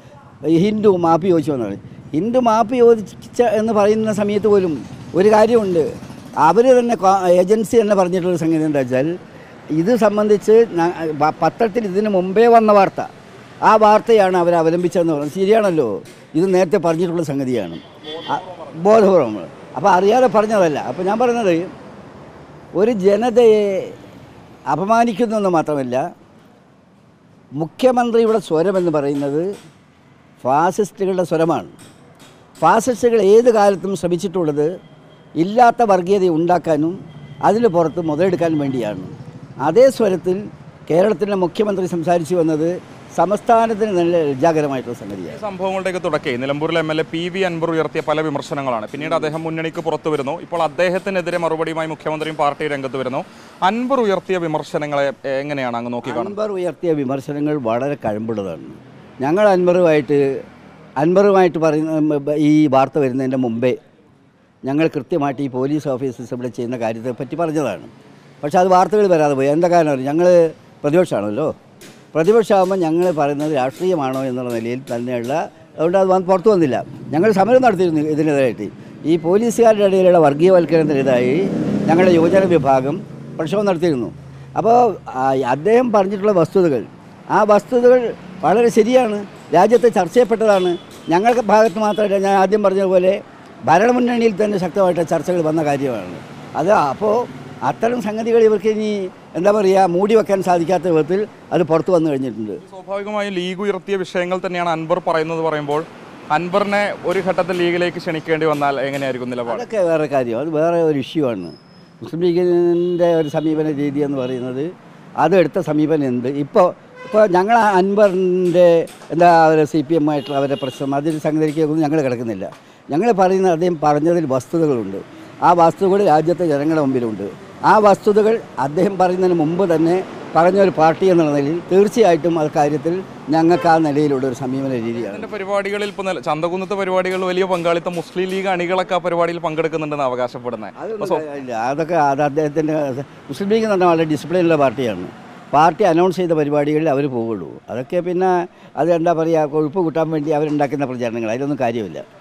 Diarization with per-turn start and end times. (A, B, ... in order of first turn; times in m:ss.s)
0:00.5-0:05.8 A
0:06.4-0:09.1 A
0:09.8-0:13.1 A
0:13.6-0:21.7 A
0:22.8-0:24.0 A
0:24.7-0:26.0 A
0:27.6-0:29.5 A
0:30.4-0:31.7 A
0:32.6-0:34.7 A
0:35.4-0:37.0 A
0:37.5-0:39.1 A
0:39.6-0:45.4 A
0:45.3-0:56.4 B
0:56.0-1:00.2 A
1:01.0-1:03.8 A
1:04.7-1:07.9 A
1:08.4-1:11.5 A
1:12.1-1:42.6 A
1:42.7-1:49.7 B
1:49.5-1:54.7 A
1:55.2-2:15.3 A
2:15.0-2:21.3 B
2:20.8-2:32.0 A